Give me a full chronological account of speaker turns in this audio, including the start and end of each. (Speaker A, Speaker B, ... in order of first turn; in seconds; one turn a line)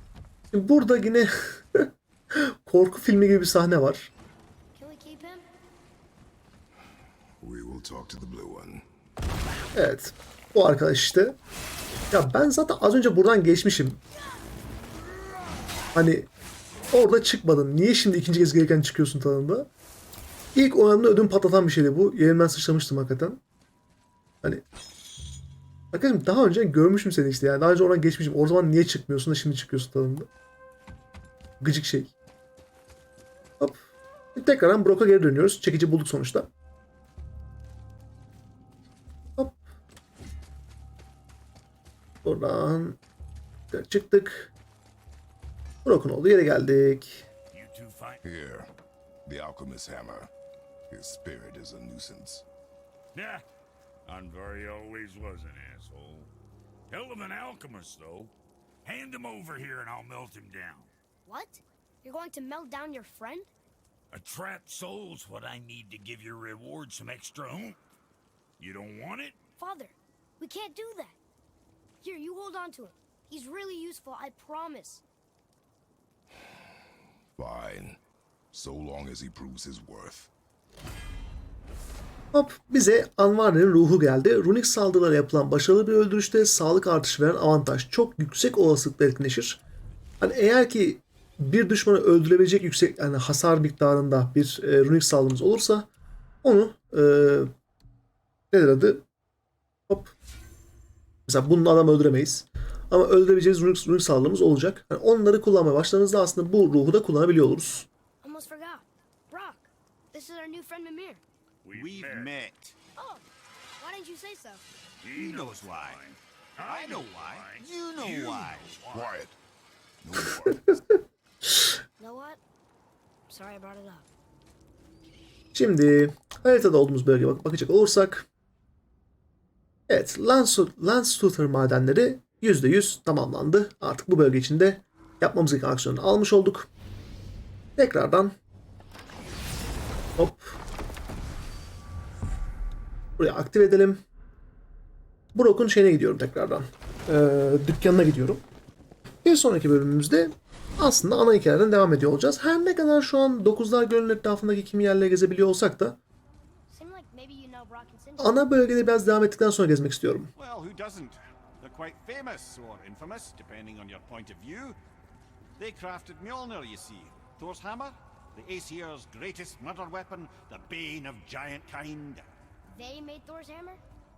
Speaker A: 0.5-4.1
Speaker B: 4.8-5.5
Speaker C: 7.4-8.9
Speaker A: 9.7-11.4
Speaker A: 12.1-14.0
Speaker A: 15.9-16.3
Speaker A: 16.9-19.7
Speaker A: 20.6-23.4
Speaker A: 25.9-30.3
Speaker A: 31.6-32.1
Speaker A: 34.4-36.5
Speaker A: 42.2-43.0
Speaker A: 43.7-44.5
Speaker A: 45.8-47.3
Speaker D: 47.5-48.2
Speaker C: 48.2-48.7
Speaker C: 49.3-50.3
Speaker C: 50.9-52.5
Speaker D: 53.1-53.4
Speaker D: 54.1-56.3
Speaker D: 56.9-58.3
Speaker D: 58.9-60.9
Speaker B: 61.3-63.5
Speaker D: 64.1-67.8
Speaker D: 68.6-69.4
Speaker B: 69.6-71.2
Speaker B: 72.0-75.0
Speaker C: 77.4-78.0
Speaker C: 78.5-80.3
Speaker A: 82.3-89.6
Speaker A: 90.2-95.9
Speaker A: 96.4-97.5
Speaker A: 98.5-99.0
Speaker A: 99.9-100.2
Speaker A: 101.3-107.9
Speaker B: 108.2-111.2
Speaker D: 111.6-112.3
Speaker E: 111.7-112.8
Speaker B: 113.0-113.2
Speaker B: 113.8-114.7
Speaker D: 115.0-119.1
Speaker E: 115.2-116.0
Speaker E: 116.7-118.7
Speaker C: 118.9-119.4
Speaker C: 120.0-120.7
Speaker B: 122.0-122.4
Speaker B: 123.3-124.1
Speaker A: 125.5-128.3
Speaker A: 129.9-136.7
Speaker A: 137.8-138.3
Speaker A: 140.2-140.6
Speaker A: 143.2-144.0
Speaker A: 145.3-148.4
Speaker A: 149.2-156.0
Speaker B: 156.7-158.4
Speaker A: 158.2-160.3
Speaker E: 160.3-164.8
Speaker E: 165.6-172.3
Speaker B: 172.7-173.8